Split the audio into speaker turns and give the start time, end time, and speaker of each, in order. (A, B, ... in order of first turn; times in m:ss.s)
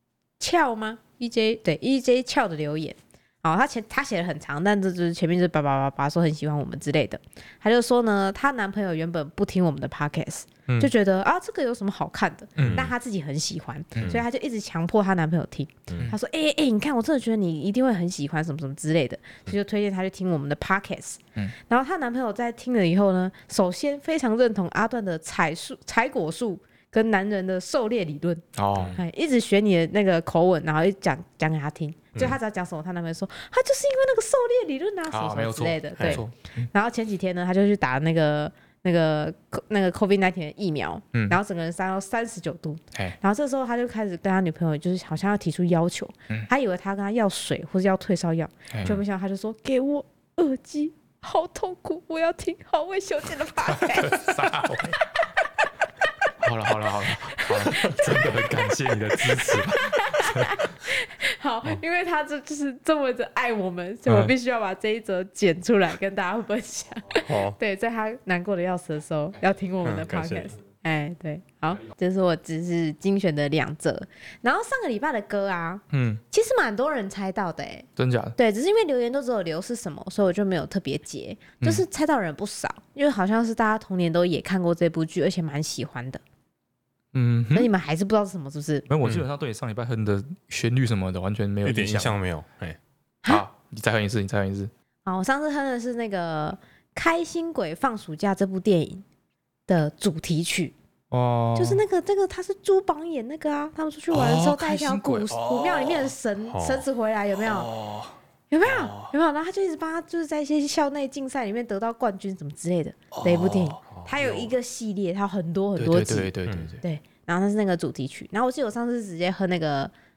0:00.4-0:54.4 A
0:12.6-0:12.9 B
0:12.6-0:12.9 C
0:28.5-0:29.0 B
0:35.1-0:36.7 B
0:36.0-0:36.2 C
0:41.1-0:41.4 B
0:53.7-0:55.0 B
0:55.0-0:55.5 A
0:56.4-1:00.5 B
0:57.3-0:58.6 A
0:59.2-1:26.2 A
1:04.1-1:04.3 C
1:07.3-1:07.6 C
1:09.8-1:10.5 C
1:15.9-1:16.2 B
1:18.0-1:18.4 B
1:27.1-1:27.7 B
1:27.5-1:28.8 A
1:28.9-1:32.1 B
1:31.6-1:32.8 C
1:33.3-1:34.7 B
1:35.0-1:39.0 A
1:39.7-1:40.7 A
1:41.1-1:41.8 B
1:41.5-1:47.7 A
1:44.1-1:46.1 B
1:46.5-1:46.8 C
1:47.4-1:48.1 B
1:48.5-1:59.9 A
1:48.6-1:49.1 B
1:53.1-1:53.8 B
1:53.9-1:54.5 C
1:55.8-1:56.8 B
1:56.4-1:56.8 C